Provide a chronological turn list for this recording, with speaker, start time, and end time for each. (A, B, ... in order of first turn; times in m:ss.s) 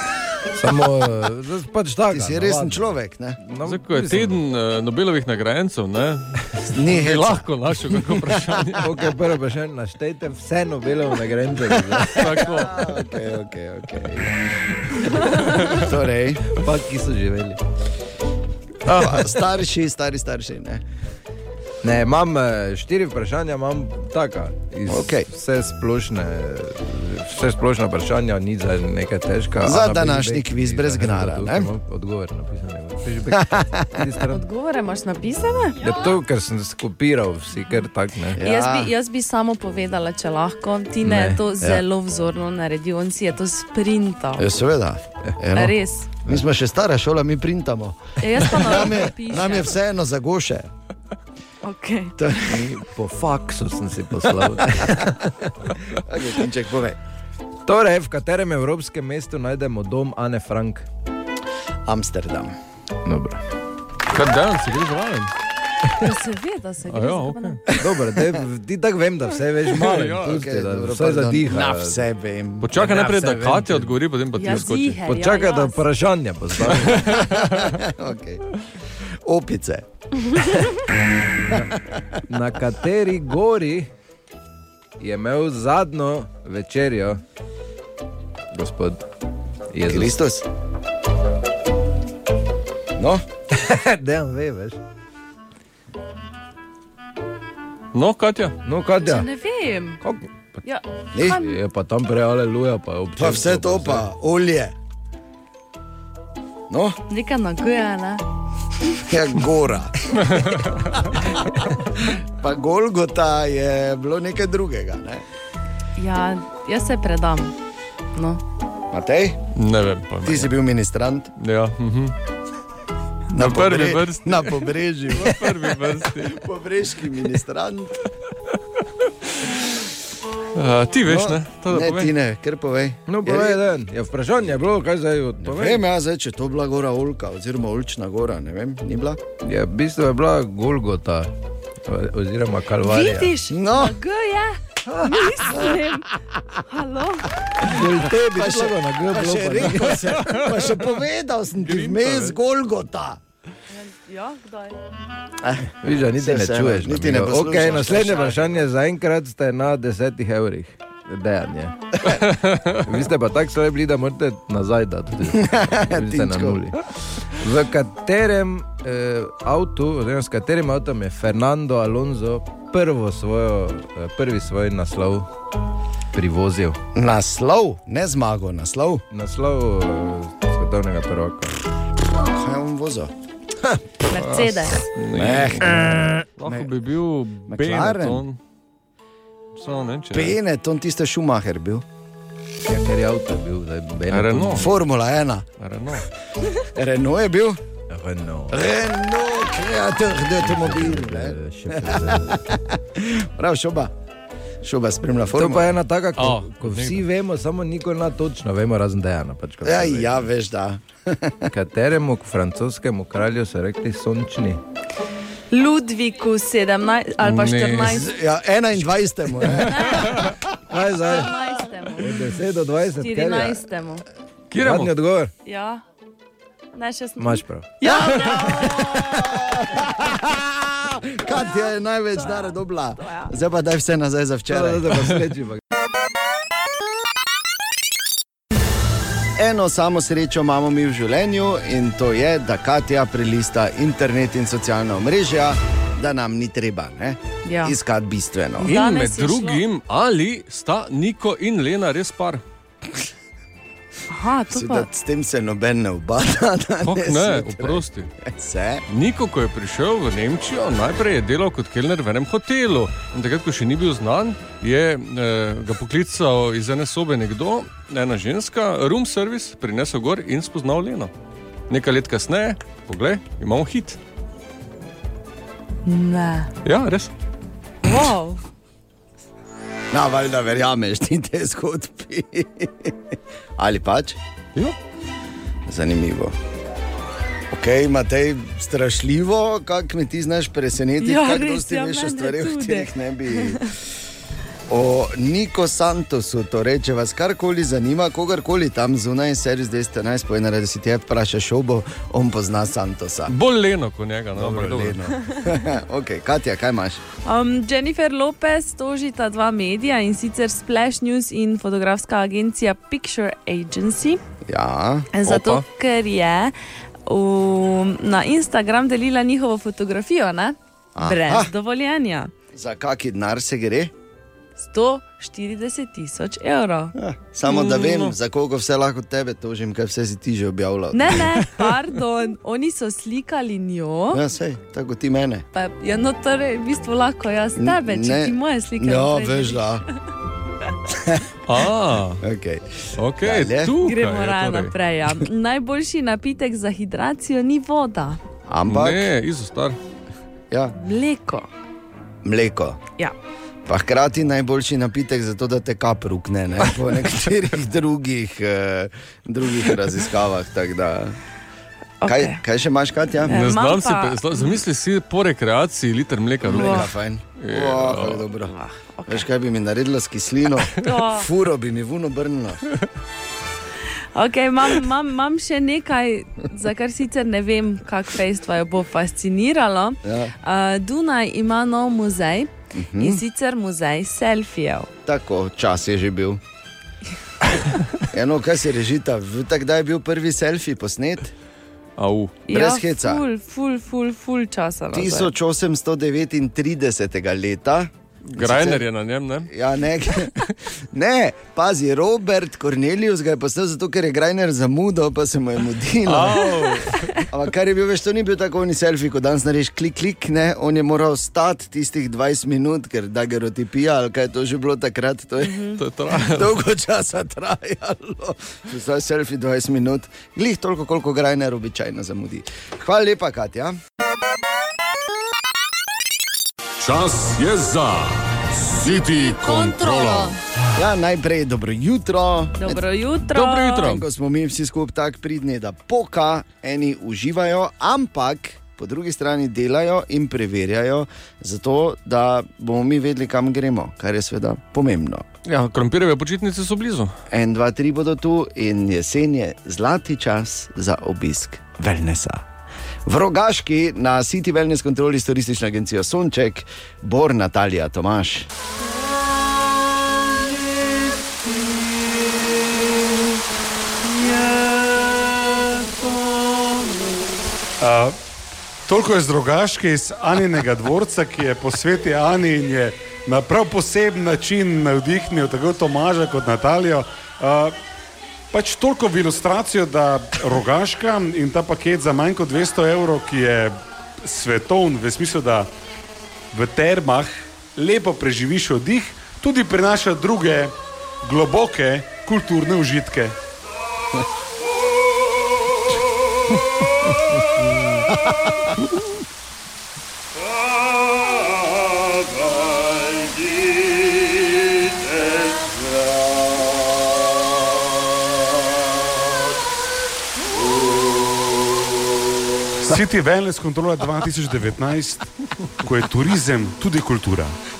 0:00.5-0:02.9 A
0:02.1-0:03.4 B
0:03.4-0:04.4 A
0:03.6-0:08.8 C
0:06.7-0:07.5 B
0:08.8-0:12.3 A
0:12.0-0:14.4 B
0:12.1-0:12.8 C
0:15.0-0:16.5 B
0:15.5-0:15.8 C
0:16.5-0:17.6 A
0:18.8-0:20.8 B
0:21.8-0:34.4 A
0:24.9-0:25.3 B
0:29.6-0:31.7 B
0:33.3-0:34.0 B
0:34.3-0:35.9 D
0:35.8-0:38.4 A
0:38.4-0:38.9 B
0:38.4-0:44.5 D
0:41.0-0:41.6 A
0:44.4-0:50.7 B
0:45.5-0:46.2 D
0:48.2-0:49.8 D
0:51.6-0:52.4 D
0:52.2-0:52.8 B
0:52.6-0:55.8 A
0:54.8-0:55.1 B
0:56.0-0:57.0 B
0:57.6-1:00.8 A
1:01.8-1:02.5 B
1:03.0-1:03.4 A
1:04.1-1:05.3 C
1:06.0-1:07.6 D
1:06.9-1:07.6 C
1:07.8-1:08.4 B
1:07.8-1:12.0 A
1:09.7-1:10.4 C
1:10.0-1:12.8 B
1:12.6-1:15.0 C
1:12.7-1:13.9 A
1:14.4-1:15.8 D
1:15.0-1:17.2 A
1:16.7-1:17.8 C
1:17.0-1:18.4 B
1:19.2-1:19.8 B
1:21.5-1:22.2 B
1:22.3-1:23.9 A
1:25.0-1:27.2 A
1:28.5-1:29.0 A
1:29.7-1:30.2 A
1:29.9-1:30.4 B
1:33.0-1:33.2 B
1:33.5-1:34.8 A
1:37.9-1:38.6 C
1:38.6-1:39.3 A
1:39.0-1:40.0 D
1:40.0-1:40.3 A
1:40.6-1:41.6 D
1:41.1-1:41.4 B
1:41.3-1:44.0 A
1:43.2-1:44.7 B
1:46.7-1:47.0 B
1:47.1-1:48.2 D
1:49.0-1:50.5 B
1:50.2-1:51.0 C
1:51.1-1:55.2 B
1:56.0-1:57.5 D
1:58.1-1:58.4 D
1:58.9-1:59.4 B
1:59.5-2:00.5 C
2:00.2-2:01.3 B
2:01.4-2:02.1 C
2:03.3-2:05.5 B
2:03.3-2:06.4 C
2:06.2-2:08.0 B
2:10.5-2:12.1 C
2:11.1-2:13.6 B
2:13.1-2:15.8 A
2:15.4-2:19.2 B
2:19.4-2:21.3 A
2:21.8-2:23.3 A
2:22.8-2:26.1 D
2:23.5-2:24.0 B
2:26.7-2:27.3 D
2:27.6-2:30.0 A
2:27.8-2:33.2 B
2:30.2-2:30.5 C
2:31.6-2:32.4 C
2:33.7-2:34.8 D
2:35.4-2:38.4 B
2:35.8-2:55.3 A
2:42.0-2:42.8 C
2:45.3-2:46.6 B
2:56.1-2:56.8 A
2:56.9-2:59.0 B
2:59.1-3:01.6 A
3:02.2-3:03.1 B
3:04.1-3:04.8 D
3:04.1-3:08.4 C
3:05.1-3:06.7 B
3:07.5-3:08.2 B
3:09.6-3:10.4 C
3:10.1-3:11.8 B
3:12.6-3:14.7 A
3:14.1-3:14.7 C
3:14.5-3:15.4 B
3:15.6-3:16.0 C
3:16.6-3:17.6 B
3:17.9-3:18.6 A
3:18.5-3:23.9 B
3:20.4-3:22.4 A
3:24.6-3:25.7 B
3:25.3-3:30.2 A
3:26.2-3:27.0 C
3:29.6-3:31.5 B
3:31.5-3:34.6 A
3:35.5-3:38.1 D
3:37.2-3:38.0 C
3:37.9-3:40.0 B
3:39.5-3:40.2 D
3:39.9-3:40.3 C
3:40.7-3:41.3 A
3:40.9-3:42.3 D
3:42.0-3:43.6 A
3:43.0-3:44.0 D
3:44.5-3:44.9 C
3:44.6-3:45.3 A
3:45.4-3:45.8 D
3:46.7-3:49.1 D
3:47.2-3:47.7 A
3:47.8-3:55.0 B
3:52.2-3:53.3 D
3:54.5-3:55.6 A
3:59.4-4:08.7 B
4:07.4-4:07.8 D
4:08.6-4:09.6 D
4:08.6-4:12.4 C
4:14.1-4:14.9 D
4:14.5-4:18.8 B
4:16.8-4:18.1 C
4:18.9-4:31.1 C
4:31.7-4:34.0 C
4:35.8-4:36.5 D
4:36.6-4:37.1 C
4:37.8-4:38.4 D
4:39.9-4:44.2 B
4:45.7-4:46.4 B
4:47.5-4:53.7 B
4:51.0-4:53.7 D
4:54.7-5:03.3 B
5:03.3-5:05.0 C
5:04.3-5:07.0 B
5:07.2-5:14.2 D
5:14.4-5:15.1 B
5:15.1-5:22.3 D
5:15.2-5:15.6 C
5:21.0-5:21.5 B
5:22.5-5:23.9 B
5:24.6-5:26.9 D
5:26.9-5:31.6 B
5:27.4-5:28.1 C
5:30.9-5:34.2 D
5:34.1-5:35.5 B
5:35.5-5:39.8 D
5:37.6-5:39.8 B
5:40.9-5:41.2 B
5:41.4-5:42.2 C
5:42.2-5:43.7 B
5:43.0-5:44.7 C
5:43.8-5:48.2 D
5:48.5-5:49.0 B
5:48.6-5:49.8 C
5:50.8-5:51.5 D
5:52.2-5:52.8 B
5:53.6-6:01.2 B
6:02.0-6:02.4 D
6:02.0-6:03.4 B
6:03.2-6:04.4 D
6:03.3-6:08.3 C
6:06.5-6:08.5 B
6:06.5-6:06.9 D
6:08.4-6:09.2 D
6:09.1-6:12.6 B
6:10.8-6:11.3 D
6:14.1-6:24.9 D
6:20.0-6:20.3 B
6:22.7-6:23.2 B
6:25.0-6:26.4 B
6:28.0-6:31.3 B
6:32.0-6:32.4 C
6:32.5-6:35.3 D
6:32.5-6:33.2 B
6:34.9-6:38.8 B
6:38.3-6:39.5 C
6:39.5-6:46.6 B
6:46.0-6:47.1 C
6:47.2-7:03.8 B
6:55.4-6:55.8 D
6:55.8-6:56.5 C
7:06.8-7:10.4 E
7:10.7-7:12.8 B
7:12.6-7:13.9 D
7:13.3-7:14.0 C
7:13.8-7:25.4 B
7:25.5-7:27.1 C
7:27.3-7:32.4 B
7:33.0-7:38.5 B
7:47.8-7:48.2 F
7:48.8-7:57.7 F
7:58.5-8:05.7 F
8:06.5-8:13.4 F
8:18.1-8:18.7 B
8:32.8-8:35.3 F
8:35.8-8:37.6 F